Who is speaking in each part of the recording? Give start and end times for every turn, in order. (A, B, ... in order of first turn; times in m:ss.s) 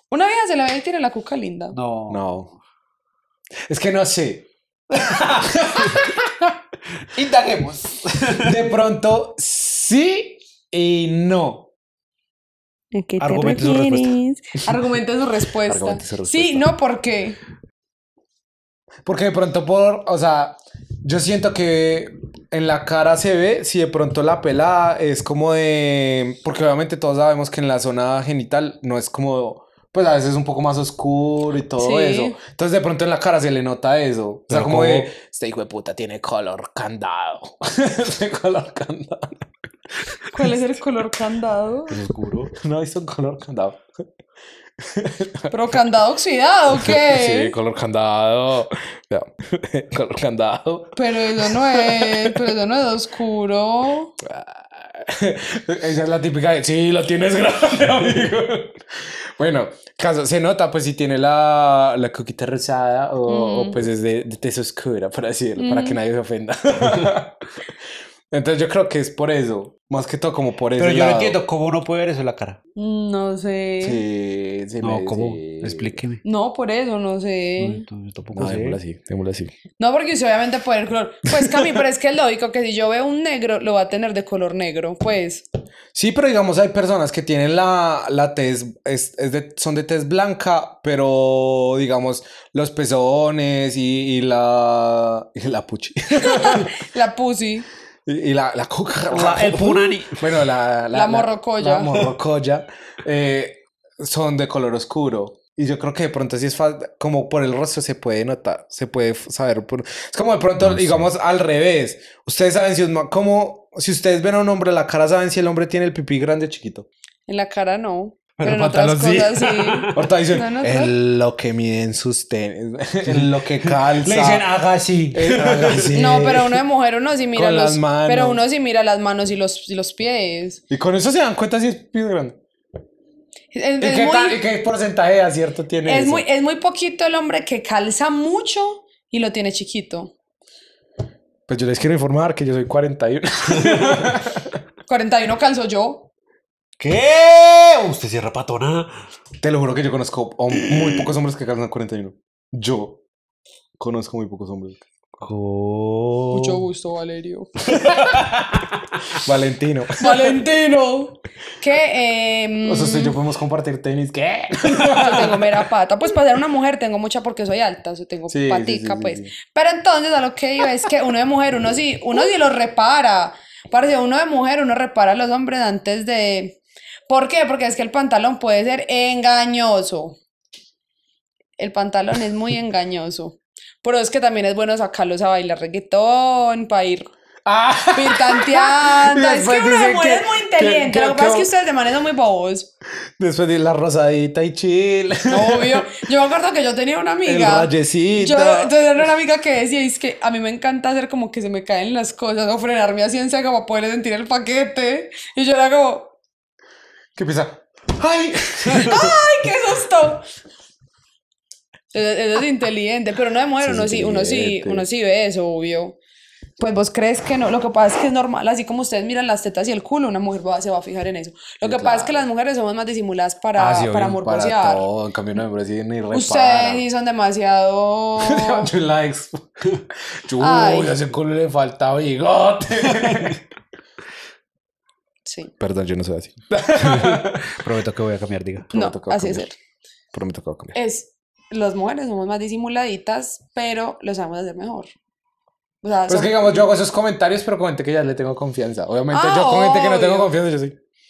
0:00.1-0:01.8 A
0:01.7-0:02.2 B
0:02.1-0:02.5 C
0:03.7-0:06.6 C
0:07.0-0:08.5 B
0:08.4-0:11.7 C
0:12.9-0:17.4 A
0:13.2-0:14.2 B
0:15.6-0:16.7 C
0:19.0-0:39.4 C
0:31.8-0:32.4 A
0:34.5-0:35.1 B
0:40.3-0:42.0 A
0:41.9-0:42.5 B
0:42.5-0:43.8 C
0:44.8-0:45.5 C
0:45.5-0:47.5 A
0:46.8-0:52.5 C
0:50.9-0:54.1 A
0:54.2-1:07.4 C
1:03.3-1:03.8 A
1:05.6-1:06.0 A
1:08.3-1:11.4 C
1:10.8-1:12.6 B
1:12.8-1:14.0 A
1:13.8-1:16.0 C
1:14.8-1:16.2 B
1:16.2-1:17.8 A
1:17.6-1:18.8 B
1:18.3-1:19.5 C
1:19.8-1:25.4 A
1:21.3-1:21.8 C
1:25.9-1:36.7 C
1:36.1-1:37.7 A
1:38.0-1:56.9 C
1:39.1-1:40.4 B
1:40.9-1:42.0 A
1:50.6-1:51.1 B
1:57.3-2:00.9 A
1:58.4-2:00.0 B
1:59.9-2:04.5 C
2:03.0-2:06.0 B
2:05.1-2:06.6 C
2:05.9-2:10.6 A
2:07.3-2:08.4 C
2:10.7-2:12.4 C
2:13.5-2:14.4 A
2:13.8-2:16.2 C
2:15.8-2:20.1 A
2:21.5-2:24.6 C
2:23.6-2:24.0 B
2:24.9-2:26.1 A
2:26.8-2:28.9 B
2:29.4-2:33.0 C
2:30.5-2:31.1 B
2:33.8-2:35.3 C
2:35.2-2:36.6 B
2:36.3-2:37.8 A
2:37.7-2:39.1 B
2:39.1-2:40.4 C
2:40.0-2:43.1 A
2:42.6-2:45.6 C
2:44.9-3:00.2 A
2:48.3-2:49.3 C
3:01.6-3:07.1 A
3:07.4-3:11.5 C
3:07.9-3:12.7 A
3:13.2-3:16.0 C
3:15.3-3:26.1 A
3:17.2-3:18.7 C
3:27.2-3:29.2 C
3:28.8-3:30.2 A
3:31.9-3:36.0 A
3:33.6-3:34.9 C
3:36.6-3:44.9 A
3:41.6-3:42.2 C
3:43.6-3:46.8 C
3:46.1-3:48.7 A
3:48.2-3:49.4 C
3:50.2-3:53.4 C
3:50.4-3:50.9 A
3:53.0-3:53.3 B
3:55.2-3:55.5 A
3:55.6-3:57.6 C
3:56.8-3:58.7 B
3:58.7-3:59.4 C
3:58.7-3:59.6 A
4:00.1-4:00.8 C
4:00.7-4:04.9 A
4:05.8-4:06.7 A
4:06.1-4:10.8 C
4:09.1-4:10.3 A